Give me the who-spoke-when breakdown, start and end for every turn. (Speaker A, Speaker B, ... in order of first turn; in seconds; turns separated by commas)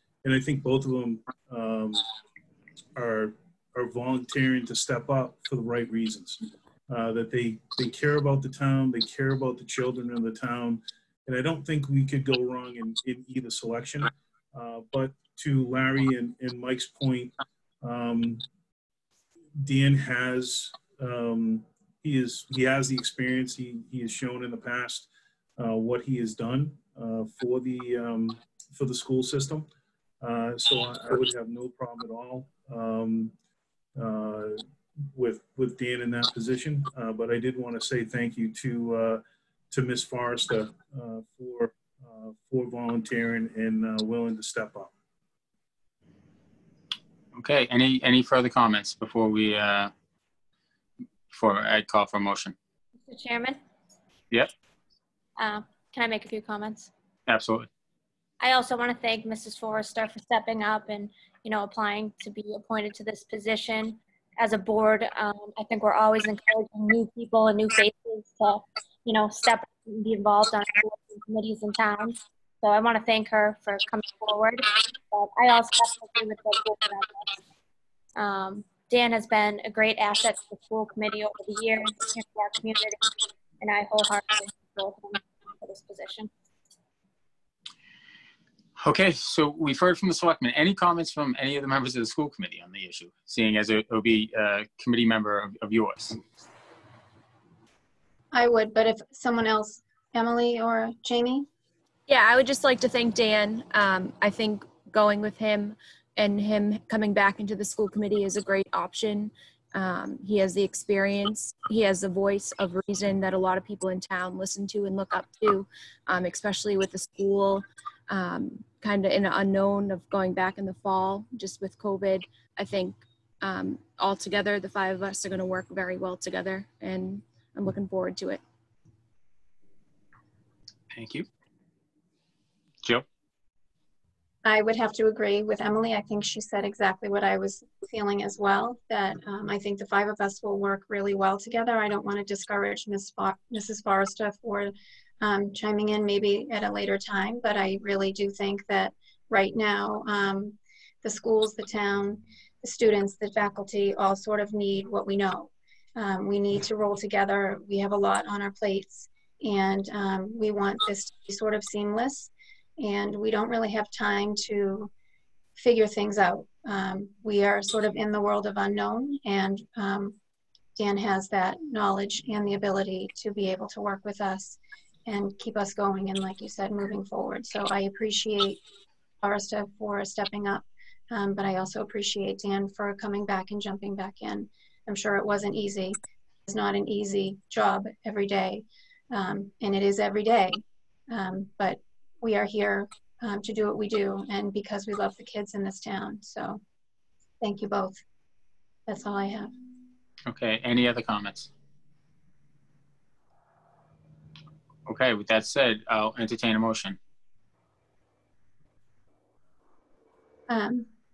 Speaker A: 0.2-2.0, Speaker A: 3.0-18.4, Speaker A: 19.6-29.7, Speaker A: 30.2-33.3, Speaker A: 34.0-34.6, Speaker A: 35.1-44.9, Speaker B: 47.3-49.9, Speaker B: 51.3-52.5, Speaker C: 53.1-53.6, Speaker C: 55.4-56.9, Speaker B: 57.3-57.7, Speaker C: 58.4-77.4, Speaker C: 78.2-86.3, Speaker B: 88.8-96.2, Speaker D: 98.3-101.5, Speaker E: 102.1-128.4, Speaker B: 130.9-131.3, Speaker D: 134.4-164.9, Speaker D: 165.6-170.2, Speaker D: 170.8-178.6, Speaker D: 179.2-196.6, Speaker D: 197.4-198.0, Speaker D: 198.9-199.5, Speaker B: 200.3-201.5, Speaker B: 204.9-207.0, Speaker D: 210.5-210.9